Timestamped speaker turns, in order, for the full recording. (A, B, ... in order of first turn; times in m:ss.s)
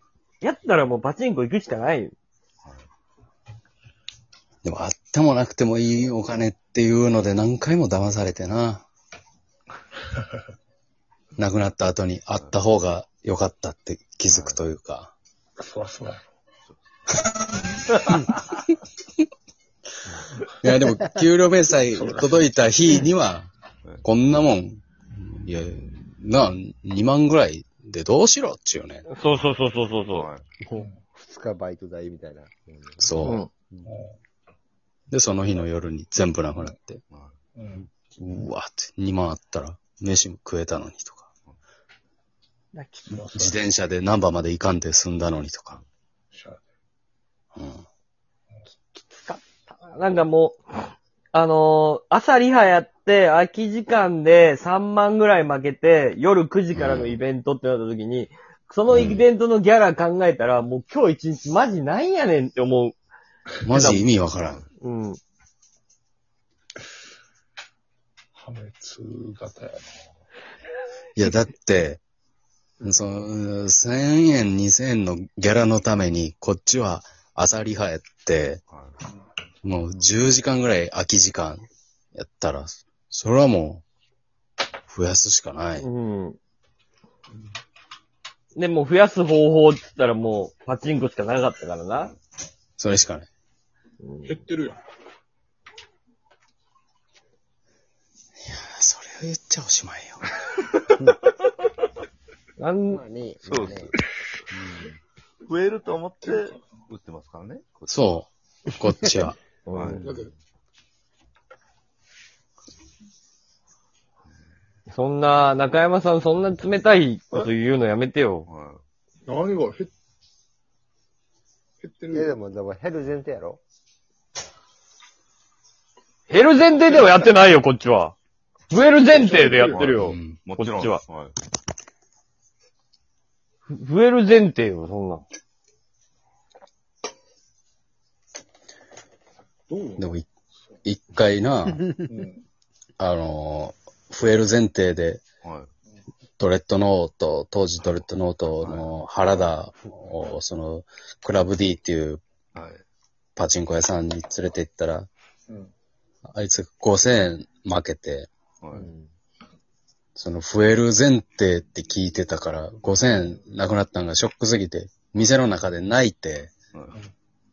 0:00.4-0:02.1 A
0:04.6-0:08.8 B
0:11.4-0:15.1 B
0:14.3-0:14.6 C
0:15.6-0:16.2 D
0:17.9-0:18.5 D
0:20.6-0:23.5 B
0:21.9-0:22.5 D
0:24.0-0:29.0 B
0:29.1-0:30.3 A
0:30.1-0:30.4 C
0:30.7-0:33.9 E
0:33.0-0:33.4 B
0:33.2-0:33.5 A
0:33.8-0:34.1 D
0:35.1-0:37.0 B
0:37.1-0:37.4 C
0:37.6-0:37.9 D
0:38.2-0:41.3 B
0:42.7-0:43.2 A
0:43.1-0:43.6 D
0:43.3-0:45.8 B
0:46.3-0:46.6 D
0:47.5-0:47.8 B
0:49.3-0:50.6 A
0:51.3-1:03.0 A
0:56.7-0:57.2 B
0:58.9-0:59.2 B
1:03.6-1:04.6 B
1:03.7-1:04.0 A
1:04.3-1:04.6 C
1:04.8-1:05.2 A
1:08.4-1:09.9 D
1:11.2-1:12.0 B
1:12.8-1:18.6 B
1:18.7-1:19.0 C
1:19.6-1:21.6 B
1:22.1-1:23.8 B
1:24.9-1:25.9 B
1:25.8-1:26.4 A
1:28.5-1:32.1 A
1:32.8-1:33.3 B
1:34.0-1:34.4 A
1:34.2-1:34.8 D
1:38.5-1:40.3 B
1:42.6-1:43.0 A
1:42.9-1:43.9 E
1:43.4-1:43.9 C
1:44.5-1:48.2 C
1:47.9-1:49.4 B
1:49.7-1:50.0 A
1:49.7-1:50.2 C
1:50.0-1:50.3 D
1:54.9-1:58.5 A
1:58.5-1:58.8 C
1:59.3-1:59.9 D
2:01.8-2:02.3 D
2:02.1-2:03.6 E
2:06.3-2:08.1 A
2:08.7-2:11.0 A
2:09.1-2:09.9 D
2:09.4-2:11.3 C
2:10.0-2:10.4 B
2:13.7-2:15.2 A
2:19.7-2:20.0 D
2:20.0-2:20.2 B
2:20.8-2:21.9 B
2:22.1-2:22.4 D
2:23.0-2:25.2 B
2:25.4-2:25.7 C
2:26.4-2:32.2 B
2:28.6-2:29.5 C
2:32.5-2:32.8 C
2:33.4-2:35.1 B
2:36.3-2:38.3 B
2:38.6-2:38.9 C
2:38.7-2:39.1 E
2:40.2-2:46.5 B
2:46.7-2:47.0 C